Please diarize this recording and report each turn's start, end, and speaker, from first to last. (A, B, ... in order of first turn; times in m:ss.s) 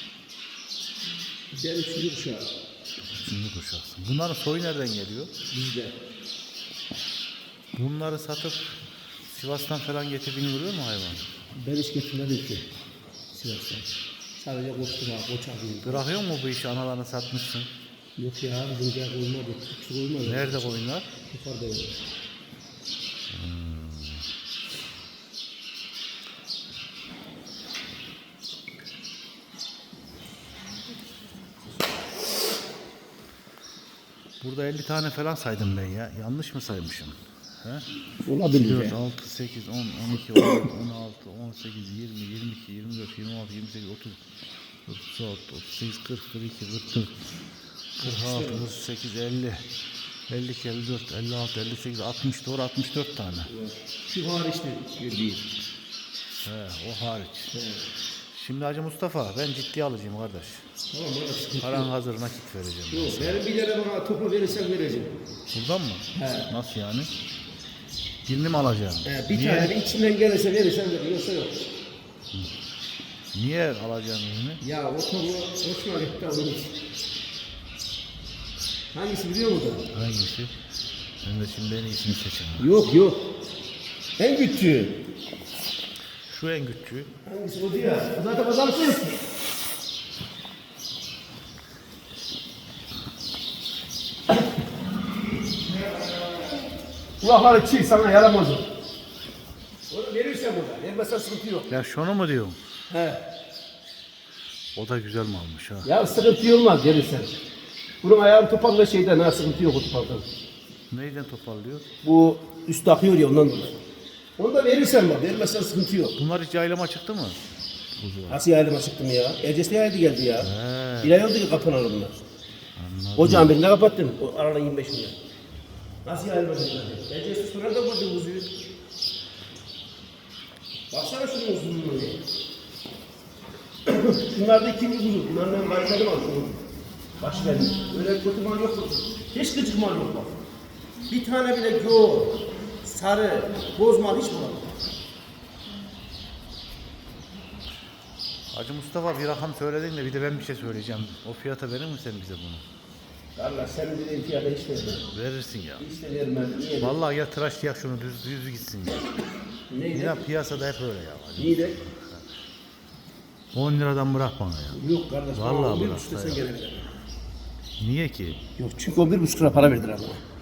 0:01.5-0:02.5 A
0:03.2-0:05.3 B
0:05.5-0:06.0 A
0:07.7-0:11.2 B
0:11.5-0:12.7 A
0:13.3-0:16.0 A
0:15.8-0:17.7 B
0:18.2-0:22.0 A
0:20.2-0:21.1 B
0:23.3-0:24.3 B
0:34.4-0:37.9 B
0:38.2-0:39.0 A
0:38.5-0:44.2 B
0:44.8-0:47.1 B
0:48.0-0:49.6 B
0:48.0-0:48.7 A
0:50.3-0:53.5 B
0:53.5-0:55.4 A
0:56.4-0:57.5 B
0:57.5-0:57.9 A
0:58.3-1:00.7 B
1:00.9-1:01.9 A
1:01.6-1:03.4 B
1:02.9-1:05.1 A
1:05.5-1:07.1 B
1:06.1-1:06.5 A
1:08.2-1:09.8 B
1:09.0-1:11.6 A
1:13.3-1:14.6 B
1:14.6-1:16.7 A
1:18.9-1:19.9 A
1:19.9-1:20.5 B
1:21.2-1:22.7 B
1:22.6-1:23.2 A
1:24.2-1:25.0 A
1:26.3-1:27.1 B
1:27.2-1:29.2 A
1:37.2-1:38.6 A
1:39.9-1:41.7 A
1:41.7-1:42.6 B
1:42.9-1:43.2 A
1:44.7-1:45.9 B
1:45.8-1:47.3 A
1:48.0-1:50.2 A
1:50.9-1:51.8 B
1:52.0-1:53.8 A
1:54.4-1:56.2 A
1:56.2-1:57.4 B
1:58.0-1:58.4 B
1:58.3-2:02.2 A
2:00.4-2:01.2 B
2:02.8-2:03.5 B
2:03.2-2:05.2 A
2:06.0-2:08.5 A
2:10.9-2:12.2 A
2:13.8-2:16.6 A
2:17.2-2:20.3 A
2:21.1-2:24.7 A
2:28.5-2:32.6 B
2:33.4-2:35.0 A
2:35.1-2:35.8 B
2:35.8-2:37.0 A
2:36.8-2:39.0 B
2:39.7-2:40.2 A
2:39.9-2:42.3 B
2:41.4-2:41.8 A
2:43.5-2:44.8 B
2:44.7-2:46.9 A
2:45.3-2:46.4 B
2:47.8-2:48.4 B
2:48.6-2:50.2 A